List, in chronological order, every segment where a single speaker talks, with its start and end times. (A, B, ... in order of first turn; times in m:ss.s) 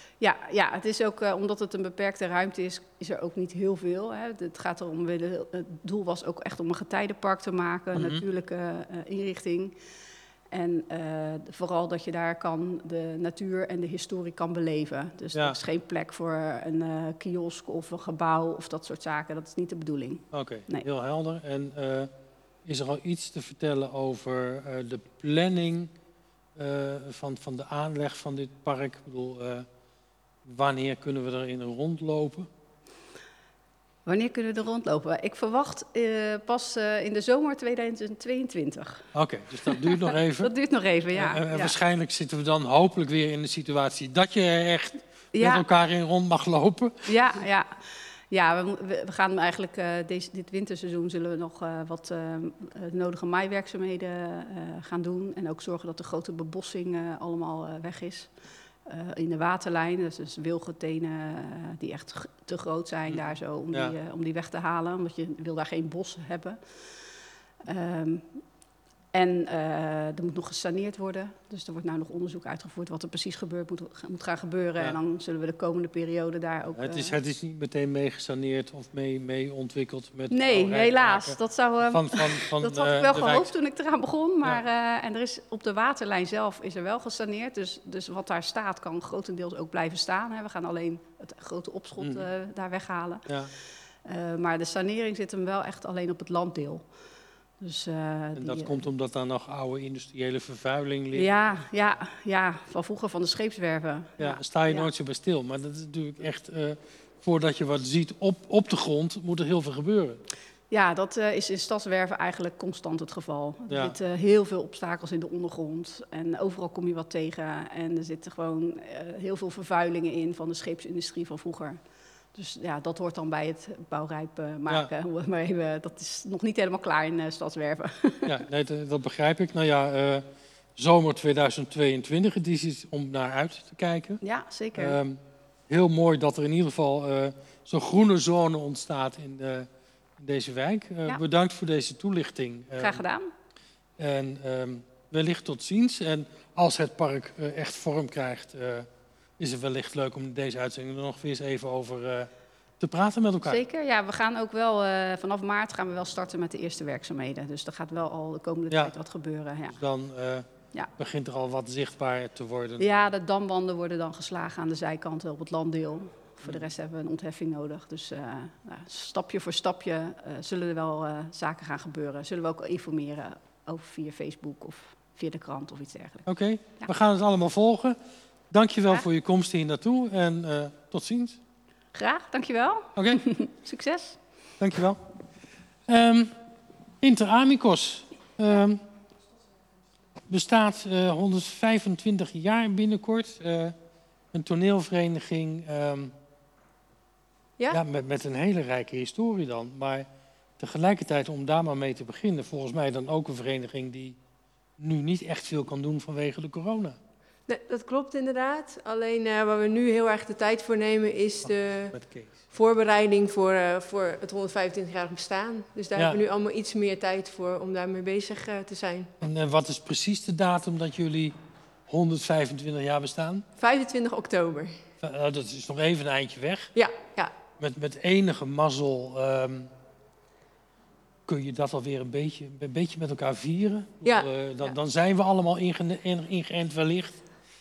0:00.2-0:09.8 A
0:07.9-0:08.2 B
0:10.5-0:20.9 A
0:15.3-0:15.6 B
0:20.3-0:22.1 B
0:22.6-0:25.9 B
0:26.6-0:29.7 B
0:30.4-0:32.5 B
0:34.1-0:39.1 A
0:39.1-0:40.5 B
0:39.7-0:41.8 A
0:41.1-0:47.1 B
0:45.3-0:45.6 A
0:47.1-1:07.1 A
1:03.1-1:04.0 B
1:07.6-1:08.6 A
1:09.1-1:17.2 A
1:16.8-1:23.5 B
1:20.3-1:36.9 A
1:32.0-1:32.3 B
1:33.3-1:33.5 B
1:37.6-1:38.9 A
1:38.4-1:41.3 B
1:41.1-1:44.9 A
1:44.2-1:50.2 B
1:50.7-2:01.8 A
1:53.7-1:54.0 B
2:02.3-2:08.3 A
2:08.2-2:14.2 B
2:14.2-2:15.0 A
2:14.8-2:23.0 B
2:22.8-2:23.3 A
2:24.0-2:28.9 B
2:29.4-2:33.6 B
2:33.4-2:39.8 A
2:38.7-2:39.0 B
2:39.6-2:42.8 B
2:42.8-2:56.9 A
2:56.3-2:58.0 B
2:58.5-3:01.4 B
3:01.9-3:04.2 A
3:03.0-3:03.2 B
3:04.6-3:05.0 B
3:05.9-3:06.4 B
3:07.0-3:08.8 B
3:10.3-3:13.8 B
3:14.3-3:16.1 B
3:17.7-3:20.1 B
3:20.6-3:24.2 B
3:24.8-3:27.0 B
3:27.5-3:32.0 C
3:31.4-3:32.3 B
3:32.5-3:39.1 C
3:39.2-3:43.5 B
3:43.6-3:44.8 C
3:45.0-3:46.7 B
3:46.8-3:47.3 C
3:47.6-3:49.7 B
3:51.3-3:57.2 B
3:54.0-3:54.8 C